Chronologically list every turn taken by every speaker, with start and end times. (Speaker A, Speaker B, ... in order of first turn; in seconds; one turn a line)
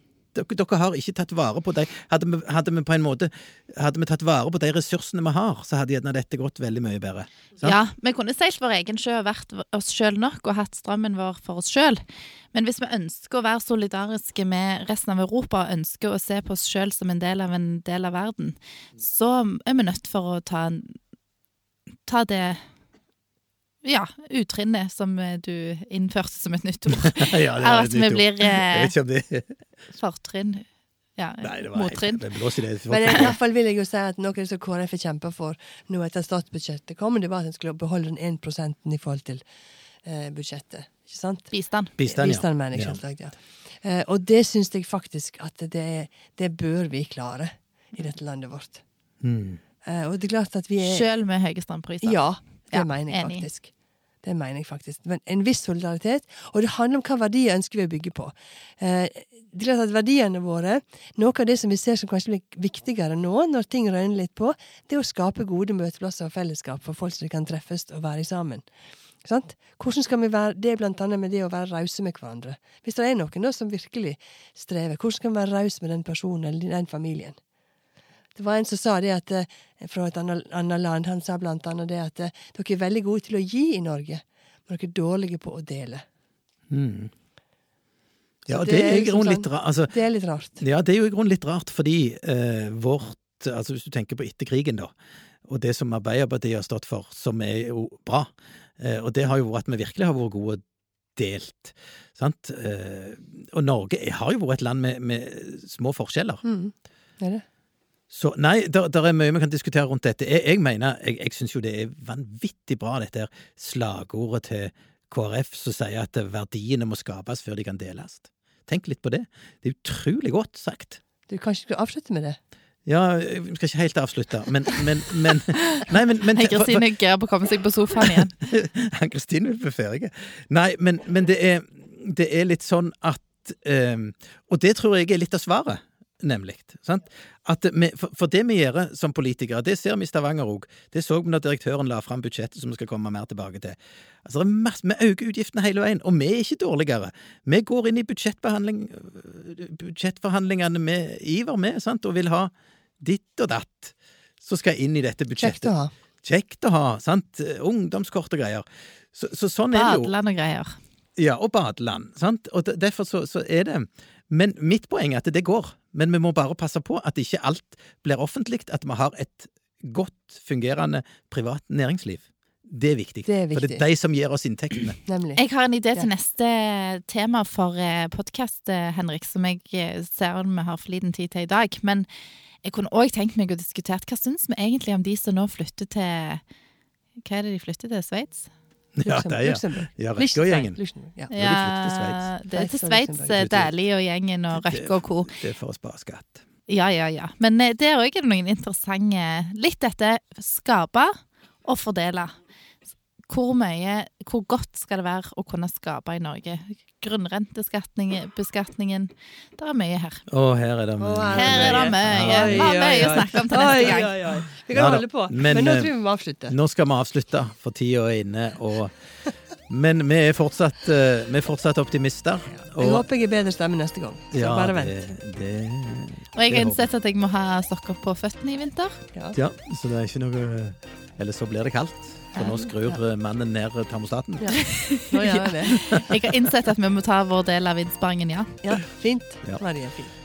Speaker A: 0.3-7.8
Speaker B: 7.6-21.0
Speaker B: 22.1-22.7
Speaker B: 23.8-28.9
Speaker A: 27.1-29.5
Speaker B: 29.9-32.3
Speaker A: 31.4-33.4
Speaker C: 32.9-39.4
Speaker C: 40.0-48.8
Speaker B: 41.5-41.9
Speaker A: 42.0-43.0
Speaker A: 49.2-49.6
Speaker C: 49.8-51.1
Speaker B: 50.8-53.5
Speaker C: 52.0-53.7
Speaker C: 54.2-68.7
Speaker C: 69.2-77.4
Speaker C: 78.4-86.0
Speaker A: 86.7-87.1
Speaker A: 88.5-89.9
Speaker C: 88.5-90.6
Speaker A: 90.6-94.9
Speaker A: 95.5-100.6
Speaker A: 101.2-106.4
Speaker C: 106.4-107.4
Speaker A: 108.1-121.0
Speaker C: 121.3-122.4
Speaker A: 122.8-126.8
Speaker B: 125.6-128.3
Speaker A: 128.0-160.1
Speaker C: 155.4-155.9
Speaker B: 159.7-160.8
Speaker A: 161.2-175.0
Speaker C: 173.3-173.8
Speaker C: 175.1-175.4
Speaker B: 175.4-182.1
Speaker B: 182.6-186.4
Speaker B: 187.2-188.5
Speaker A: 188.9-190.8
Speaker C: 189.1-191.3
Speaker A: 191.3-192.3
Speaker B: 191.3-195.4
Speaker C: 192.5-193.5
Speaker A: 193.3-193.7
Speaker A: 194.5-196.4
Speaker B: 196.7-202.4
Speaker B: 203.3-210.3
Speaker A: 210.3-212.8
Speaker C: 211.0-216.6
Speaker B: 211.3-214.4
Speaker A: 214.7-215.9
Speaker A: 216.5-218.9
Speaker A: 219.7-223.1
Speaker C: 222.8-225.1
Speaker A: 224.3-226.8
Speaker B: 226.3-229.0
Speaker A: 229.3-234.8
Speaker C: 232.4-233.0
Speaker B: 234.5-238.6
Speaker C: 235.1-235.9
Speaker A: 235.7-236.2
Speaker C: 238.6-240.1